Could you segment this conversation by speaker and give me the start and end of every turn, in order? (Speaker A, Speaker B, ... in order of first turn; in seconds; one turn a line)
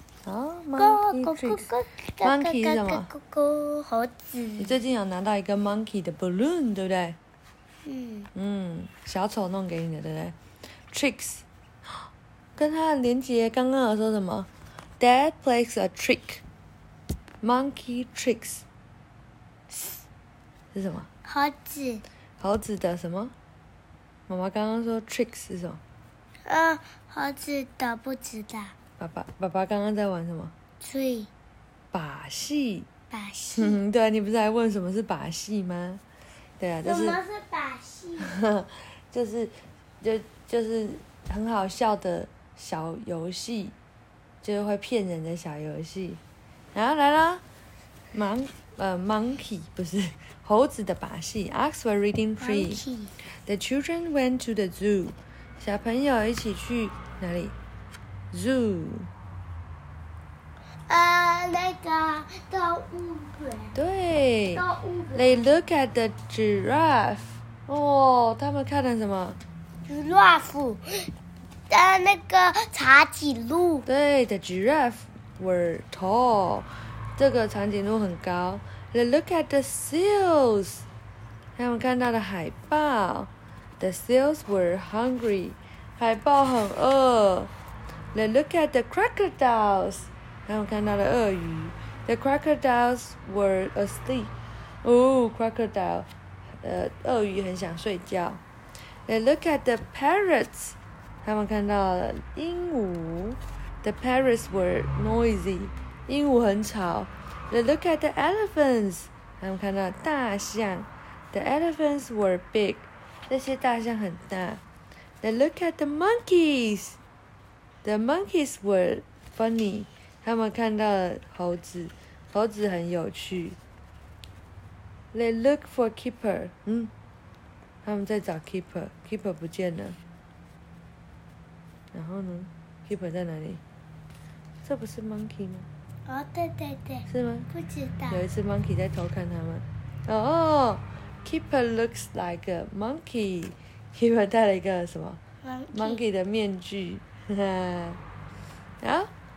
Speaker A: 0.2-1.7
Speaker B: 0.8-4.7
Speaker A: 2.2-3.1
Speaker A: 4.6-7.2
Speaker B: 7.8-8.3
Speaker A: 8.3-10.4
Speaker A: 10.9-11.4
Speaker A: 12.6-16.4
Speaker A: 17.4-18.6
Speaker B: 19.7-20.0
Speaker A: 20.7-21.1
Speaker B: 21.2-22.0
Speaker A: 22.4-23.3
Speaker A: 24.3-25.8
Speaker B: 26.5-28.7
Speaker A: 29.0-30.5
Speaker B: 30.8-31.3
Speaker A: 31.9-32.9
Speaker B: 33.1-33.8
Speaker A: 33.5-36.0
Speaker A: 36.6-37.2
Speaker B: 36.8-38.4
Speaker A: 38.2-43.8
Speaker A: 44.4-46.2
Speaker A: 46.7-47.4
Speaker A: 48.1-52.8
Speaker B: 52.4-53.1
Speaker A: 53.4-57.5
Speaker A: 58.3-59.1
Speaker B: 60.9-63.8
Speaker A: 63.7-69.4
Speaker B: 64.5-65.5
Speaker B: 69.8-71.1
Speaker B: 71.7-73.8
Speaker A: 73.8-80.8
Speaker A: 81.5-87.5
Speaker A: 88.1-96.1
Speaker A: 96.6-98.4
Speaker A: 99.1-114.6
Speaker A: 115.2-117.0
Speaker A: 117.8-123.6
Speaker A: 125.1-126.9
Speaker A: 127.8-130.0
Speaker A: 131.9-133.6
Speaker A: 134.6-135.7
Speaker B: 136.1-138.2
Speaker A: 137.1-137.5
Speaker A: 138.1-145.2
Speaker B: 145.4-146.0
Speaker A: 145.7-148.0
Speaker A: 148.8-149.1